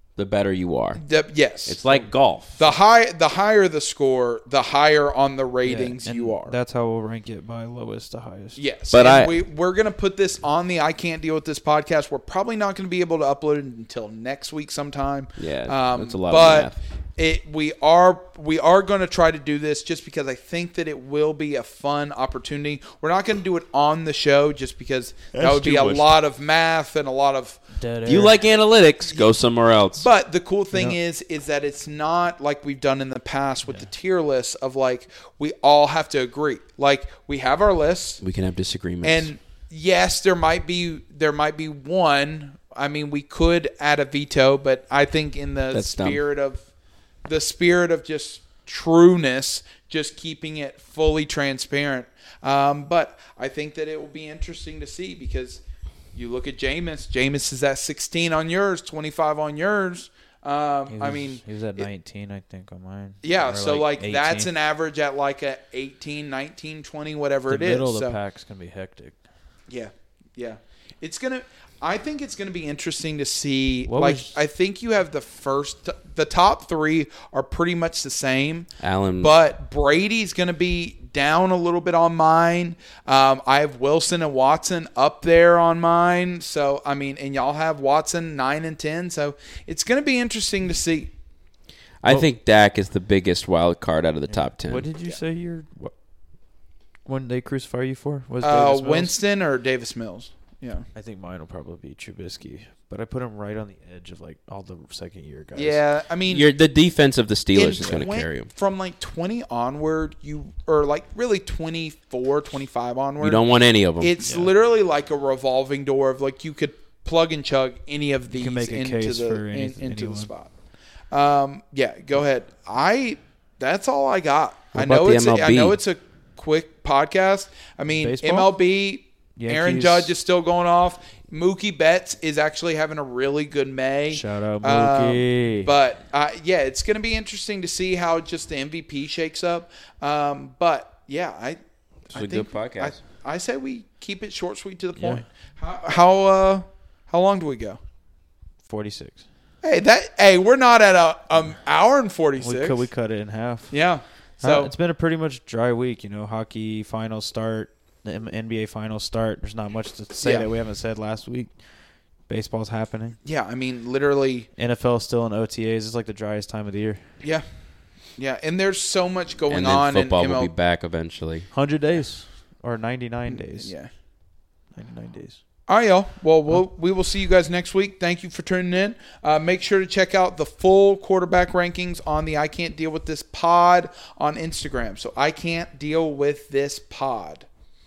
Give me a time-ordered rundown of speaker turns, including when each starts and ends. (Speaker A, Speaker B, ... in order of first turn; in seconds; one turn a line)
Speaker A: 0.1-1.0
Speaker B: 1.0-1.8
Speaker A: 1.6-2.6
Speaker B: 2.6-6.5
Speaker C: 5.6-8.6
Speaker B: 8.6-27.6
Speaker A: 8.9-9.3
Speaker A: 15.4-16.8
Speaker A: 25.3-26.1
Speaker C: 27.7-28.3
Speaker A: 28.1-30.1
Speaker B: 29.1-29.3
Speaker B: 30.0-38.2
Speaker A: 38.2-39.3
Speaker B: 39.0-46.6
Speaker A: 45.7-46.2
Speaker B: 47.2-55.6
Speaker B: 56.1-61.9
Speaker C: 60.9-64.5
Speaker B: 63.2-68.2
Speaker C: 67.5-69.2
Speaker B: 69.7-78.7
Speaker C: 73.9-74.4
Speaker A: 78.8-79.3
Speaker B: 79.2-91.1
Speaker A: 92.0-94.8
Speaker C: 94.3-95.9
Speaker C: 97.0-99.1
Speaker B: 98.4-100.9
Speaker C: 100.9-105.8
Speaker B: 105.5-106.5
Speaker A: 106.3-108.5
Speaker B: 107.5-113.4
Speaker A: 113.2-114.1
Speaker B: 114.0-120.5
Speaker C: 114.2-114.5
Speaker C: 118.3-120.3
Speaker B: 121.1-147.8
Speaker A: 124.7-125.8
Speaker C: 128.0-128.5
Speaker C: 129.3-130.1
Speaker C: 134.1-135.7
Speaker A: 142.1-143.0
Speaker C: 144.9-145.2
Speaker C: 148.6-149.2
Speaker B: 149.6-152.8
Speaker C: 152.4-153.8
Speaker B: 153.7-154.7
Speaker C: 154.4-161.5
Speaker B: 160.2-160.5
Speaker C: 162.3-163.2
Speaker B: 163.2-164.5
Speaker C: 164.6-167.0
Speaker B: 168.2-170.5
Speaker A: 169.5-171.5
Speaker C: 171.5-173.7
Speaker B: 173.3-173.9
Speaker C: 174.7-175.4
Speaker B: 175.7-187.5